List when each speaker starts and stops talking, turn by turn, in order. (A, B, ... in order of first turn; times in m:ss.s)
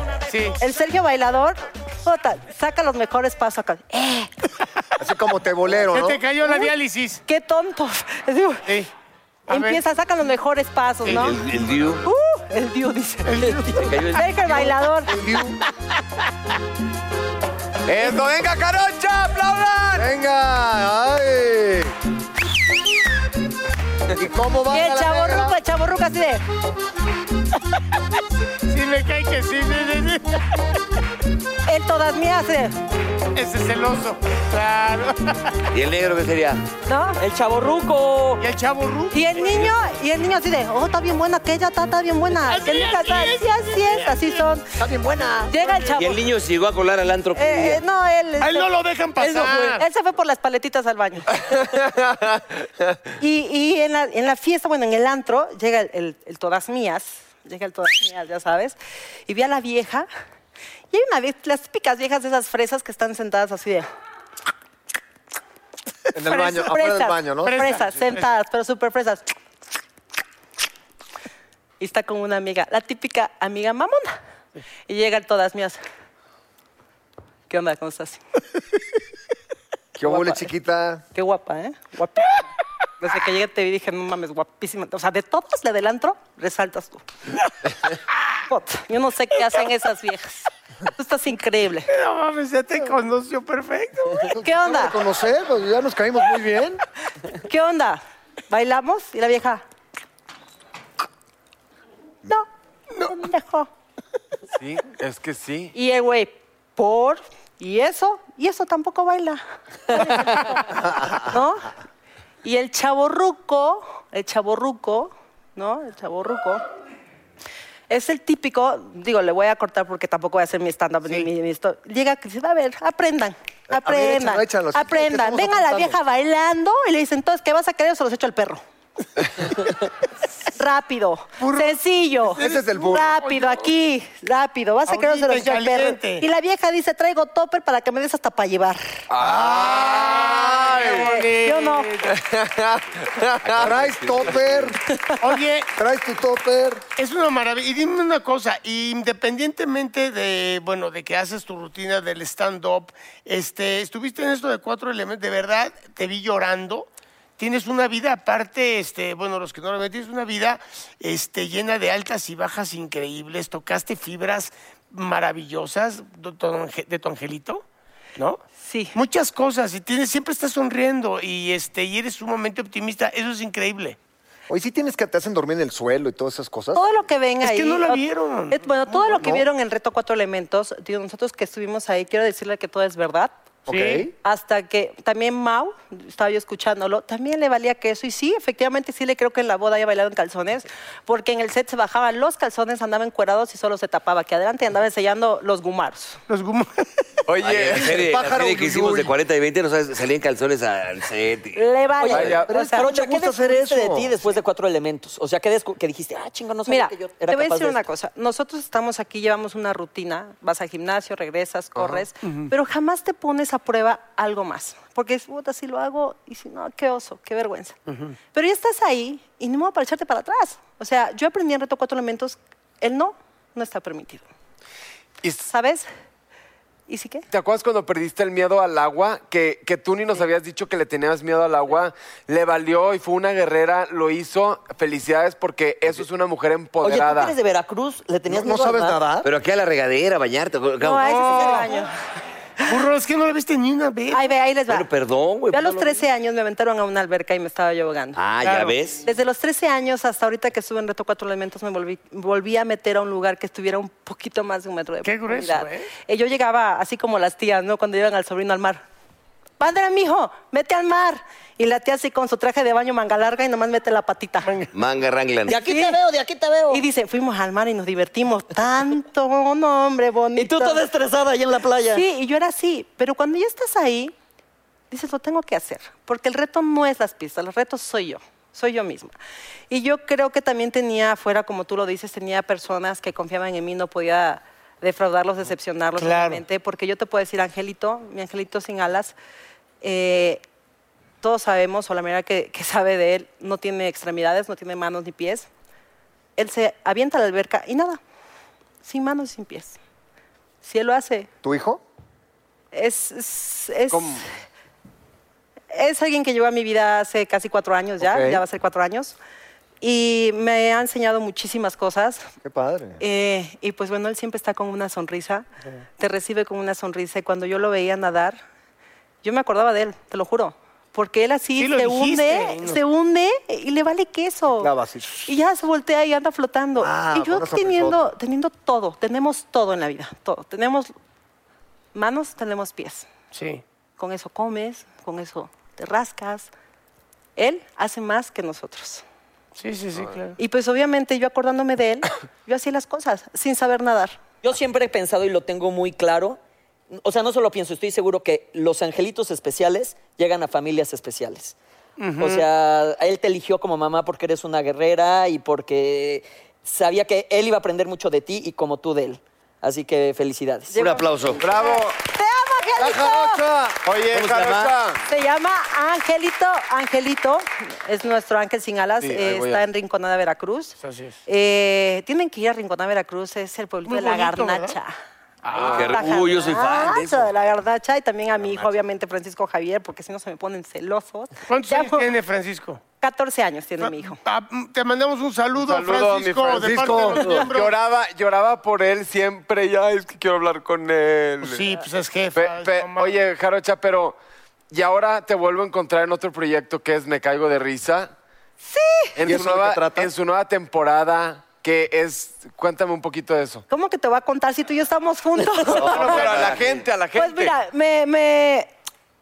0:00.3-0:00.6 A
0:00.6-0:04.3 B
0:05.0-0:06.2 C
0:05.8-0:07.2 A
0:06.4-0:06.7 B
0:07.3-0:08.7 B
0:09.5-0:09.8 A
0:09.5-0:11.4 B
0:11.0-0:12.0 D
0:12.0-0:15.1 B
0:13.3-0:14.0 A
0:13.7-0:14.6 D
0:15.0-0:15.6 C
0:17.9-0:20.1 E
0:20.0-0:21.9 C
0:24.1-0:25.6 C
0:24.7-0:26.4 B
0:28.7-0:30.4 A
0:31.6-0:32.8 B
0:33.3-0:35.6 A
0:35.7-0:36.6 D
0:36.9-0:37.2 B
0:37.2-0:38.4 F
0:38.4-0:39.7 A
0:39.1-0:44.7 B
0:42.4-0:44.4 A
0:44.8-0:45.9 C
0:45.5-0:46.2 B
0:46.0-0:47.8 D
0:47.3-0:48.7 B
0:48.4-0:49.8 A
0:49.2-0:49.8 F
0:49.8-0:51.4 B
0:51.8-0:52.3 E
0:53.2-1:00.1 B
1:00.9-1:03.9 B
1:06.1-1:07.8 C
1:06.2-1:09.3 B
1:07.4-1:08.3 A
1:11.8-1:14.2 B
1:14.9-1:15.8 B
1:17.5-1:18.2 B
1:20.0-1:21.0 C
1:20.0-1:20.5 B
1:21.1-1:22.5 B
1:23.0-1:27.0 B
1:28.5-1:31.9 B
1:31.9-1:34.3 A
1:34.3-1:36.8 C
1:34.4-1:35.0 B
1:37.4-1:39.6 B
1:43.1-1:43.7 B
1:44.6-1:45.8 E
1:45.8-1:51.7 B
1:50.8-1:51.2 C
1:52.4-1:56.6 B
1:57.9-2:08.6 B
2:03.7-2:06.0 C
2:10.6-2:18.8 B
2:11.4-2:11.7 A
2:12.3-2:13.2 C
2:12.3-2:13.7 A
2:14.9-2:16.2 A
2:19.1-2:21.1 E
2:19.2-2:20.9 C
2:19.6-2:22.1 A
2:20.9-2:21.9 B
2:22.1-2:24.4 E
2:23.4-2:24.6 D
2:23.6-2:24.8 C
2:25.2-2:25.7 A
2:25.8-2:26.8 C
2:27.0-2:47.6 A
2:48.6-2:49.0 B
2:48.9-2:54.0 A
2:54.5-2:56.8 C
2:56.8-3:03.3 B
2:57.4-2:59.3 A
2:59.2-2:59.4 C
3:03.7-3:04.1 C
3:03.7-3:04.1 A
3:04.2-3:16.2 B
3:16.3-3:17.0 A
3:17.3-3:18.1 E
3:17.4-3:21.6 D
3:17.9-3:19.1 C
3:21.6-3:22.9 B
3:22.0-3:27.8 F
3:22.0-3:22.7 E
3:22.5-3:24.2 C
3:26.7-3:37.8 B
3:31.8-3:32.0 E
3:32.2-3:32.5 A
3:37.9-3:38.2 A
3:38.3-3:44.2 B
3:45.2-3:45.5 E
3:45.5-3:45.9 B
3:46.9-3:47.3 B
3:47.3-3:57.4 E
3:56.8-3:59.0 F
3:58.3-3:59.3 C
3:59.2-4:01.1 D
4:00.8-4:01.9 B
4:01.0-4:01.9 A
4:02.7-4:04.3 A
4:04.1-4:04.9 B
4:04.7-4:06.0 D
4:05.5-4:08.2 B
4:08.2-4:09.0 D
4:08.4-4:08.8 A
4:09.0-4:18.8 B
4:15.0-4:15.9 A
4:19.6-4:24.6 B
4:24.7-4:25.5 D
4:25.5-4:26.8 F
4:25.5-4:26.0 B
4:26.7-4:30.8 B
4:30.4-4:32.0 F
4:31.9-4:34.1 B
4:34.9-4:39.1 B
4:39.7-4:49.1 B
4:46.0-4:46.4 A
4:49.8-4:50.4 B
4:51.2-4:55.5 B
4:56.4-4:58.0 B
4:58.8-4:59.8 B
5:00.6-5:01.3 B
5:01.4-5:01.8 C
5:02.7-5:04.2 B
5:03.9-5:04.2 E
5:05.7-5:09.2 B
5:08.0-5:08.4 C
5:09.8-5:12.2 B
5:12.4-5:13.0 C
5:13.0-5:15.4 B
5:16.0-5:18.4 B
5:19.2-5:24.7 B
5:21.6-5:22.8 A
5:24.6-5:25.3 C
5:25.3-5:30.9 B
5:26.8-5:28.1 C
5:31.9-5:33.1 B
5:33.3-5:33.6 A
5:34.0-5:36.5 B
5:37.4-5:39.0 B
5:39.6-5:40.4 A
5:40.4-5:44.2 B
5:44.4-5:46.4 F
5:46.9-5:51.6 F
5:52.0-5:52.4 A
5:52.2-6:00.8 F
6:00.7-6:03.4 B
6:00.8-6:01.4 D
6:01.4-6:02.0 E
6:02.8-6:03.8 C
6:03.8-6:05.0 E
6:04.1-6:04.7 D
6:05.1-6:15.0 B
6:09.0-6:09.6 E
6:10.8-6:11.2 A
6:13.9-6:14.8 A
6:15.4-6:16.0 A
6:15.5-6:16.1 E
6:15.6-6:17.3 D
6:15.7-6:22.1 B
6:21.5-6:22.8 A
6:23.0-6:24.2 B
6:23.8-6:27.8 A
6:25.6-6:31.7 E
6:26.6-6:27.5 C
6:31.4-6:33.1 A
6:32.4-6:34.2 E
6:34.7-6:38.1 E
6:38.6-6:39.2 B
6:39.2-6:43.6 E
6:39.2-6:40.1 C
6:43.7-6:46.4 B
6:45.7-6:47.6 E
6:45.8-6:46.8 D
6:47.1-6:48.7 B